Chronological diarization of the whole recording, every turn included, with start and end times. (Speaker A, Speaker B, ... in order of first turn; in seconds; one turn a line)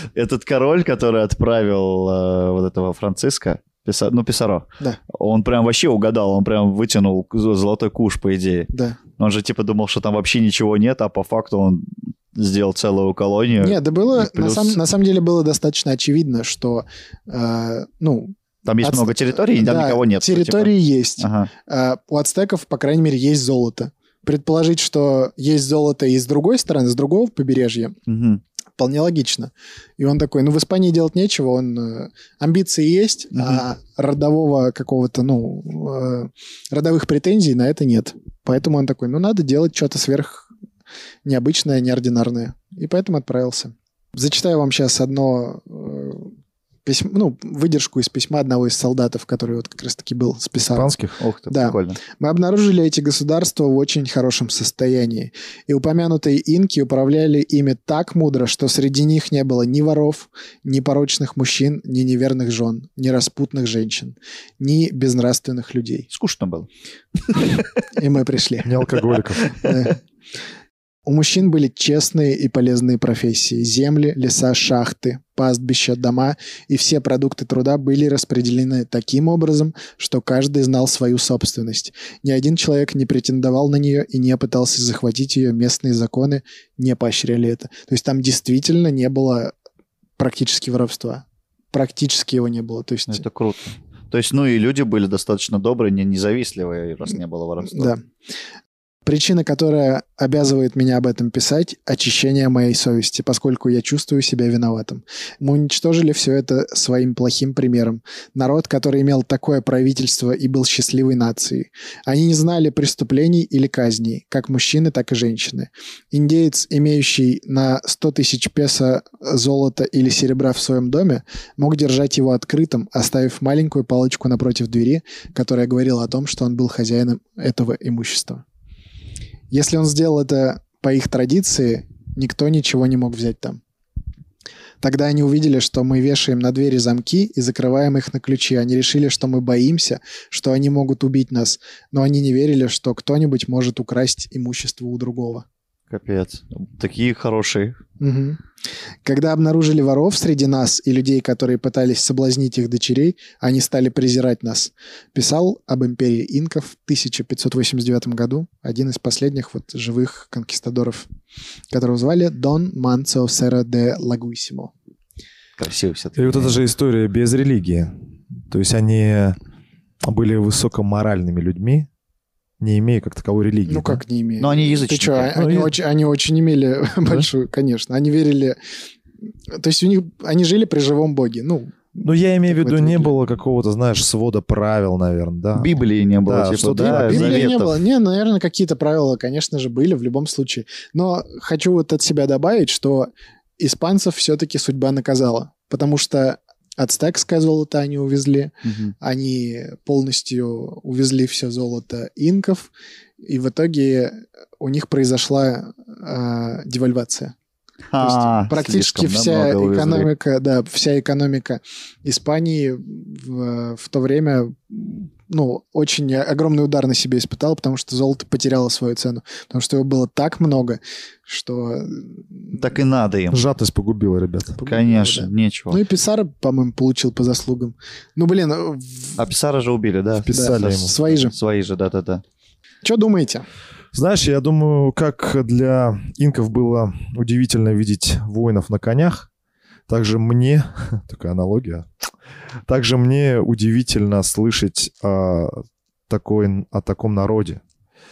Speaker A: 0.1-14.8
Speaker B: 8.7-9.0
Speaker B: 13.6-28.0
Speaker A: 18.6-21.5
Speaker A: 28.1-28.4
Speaker B: 28.8-40.5
Speaker A: 33.4-33.6
Speaker B: 41.2-46.3
Speaker B: 46.9-50.9
Speaker C: 50.7-51.2
Speaker A: 51.2-52.0
Speaker B: 51.5-66.1
Speaker A: 66.1-66.7
Speaker A: 67.2-67.8
Speaker B: 68.0-68.8
Speaker C: 68.6-69.5
Speaker B: 69.4-70.0
Speaker B: 71.1-89.5
Speaker B: 90.2-93.2
Speaker A: 93.1-97.9
Speaker B: 97.6-98.0
Speaker B: 99.1-128.4
Speaker B: 129.5-133.6
Speaker B: 134.8-145.4
Speaker A: 145.9-147.8
Speaker B: 148.0-148.4
Speaker B: 149.1-161.1
Speaker B: 161.7-164.7
Speaker A: 165.6-166.6
Speaker C: 166.2-167.9
Speaker C: 168.5-169.4
Speaker C: 170.0-171.9
Speaker C: 172.6-174.0
Speaker B: 173.7-178.6
Speaker A: 174.4-175.3
Speaker C: 175.3-175.8
Speaker B: 179.5-183.2
Speaker C: 182.0-187.5
Speaker A: 185.6-187.7
Speaker B: 186.8-202.7
Speaker A: 198.6-198.9
Speaker B: 203.2-207.3
Speaker A: 207.9-210.1
Speaker B: 208.0-222.7
Speaker A: 222.5-223.4
Speaker C: 223.3-224.6
Speaker B: 224.6-229.2
Speaker A: 224.7-225.8
Speaker A: 229.2-232.2
Speaker C: 230.2-231.0
Speaker B: 230.3-231.3
Speaker B: 232.8-233.4
Speaker C: 233.9-239.3
Speaker C: 239.9-241.9
Speaker C: 242.7-247.6